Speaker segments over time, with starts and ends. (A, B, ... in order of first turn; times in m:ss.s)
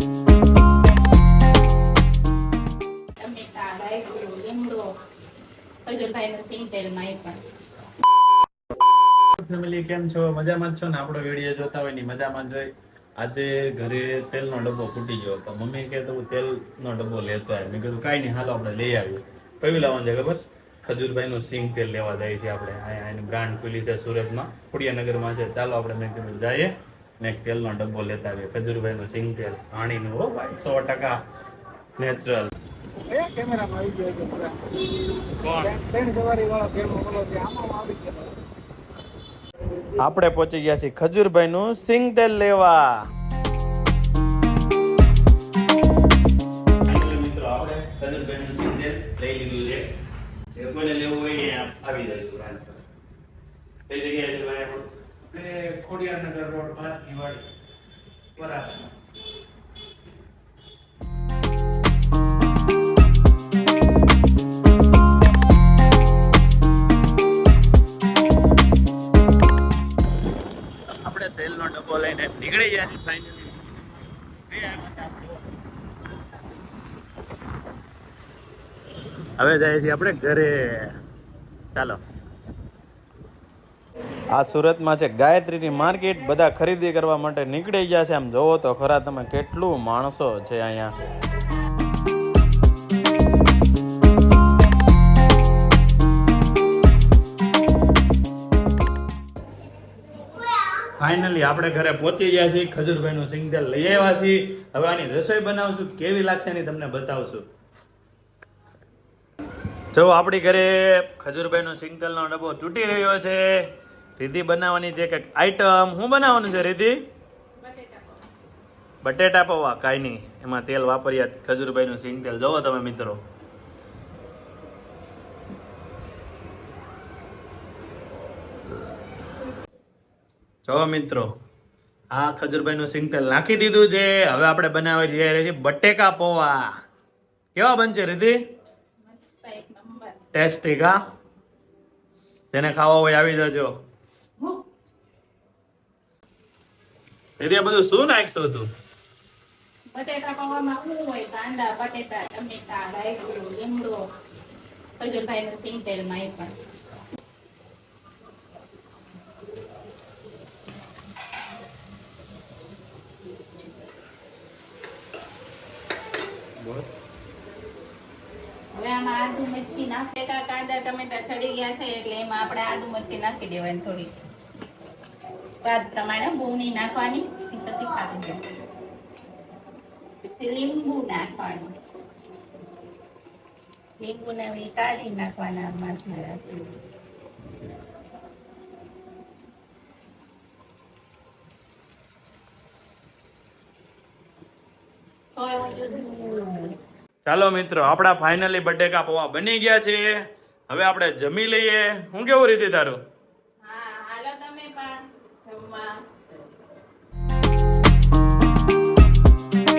0:03.2-0:04.8 A
0:05.8-0:07.4 A
0:09.3-0:31.2 B
0:32.0-0:32.5 B
0:33.0-0:34.6 C
0:35.4-0:35.7 B
0:35.6-0:38.3 C
0:40.0-0:43.0 B
0:46.8-0:49.8 B
0:50.5-0:52.8 B
0:53.9-0:57.4 B
0:58.4-0:58.9 B
1:11.0-1:15.5 B
1:19.4-1:20.9 B
1:21.7-1:22.0 B
1:24.3-1:31.0 B
1:41.0-1:47.4 B
1:49.9-1:57.0 B
1:57.6-1:58.2 A
1:59.0-2:03.2 B
2:10.6-2:11.3 B
2:12.1-2:16.7 B
2:17.5-2:18.4 B
2:19.0-2:20.2 A
2:20.3-2:21.0 B
2:22.5-2:23.8 B
2:27.4-2:28.7 B
2:29.9-2:34.0 A
2:35.0-2:36.5 A
2:48.7-2:54.1 A
2:55.6-2:58.4 A
3:00.2-3:01.7 A
3:04.0-3:06.8 A
3:15.3-3:16.8 A
3:17.2-3:20.1 B
3:20.7-3:23.0 B
3:23.6-3:26.0 A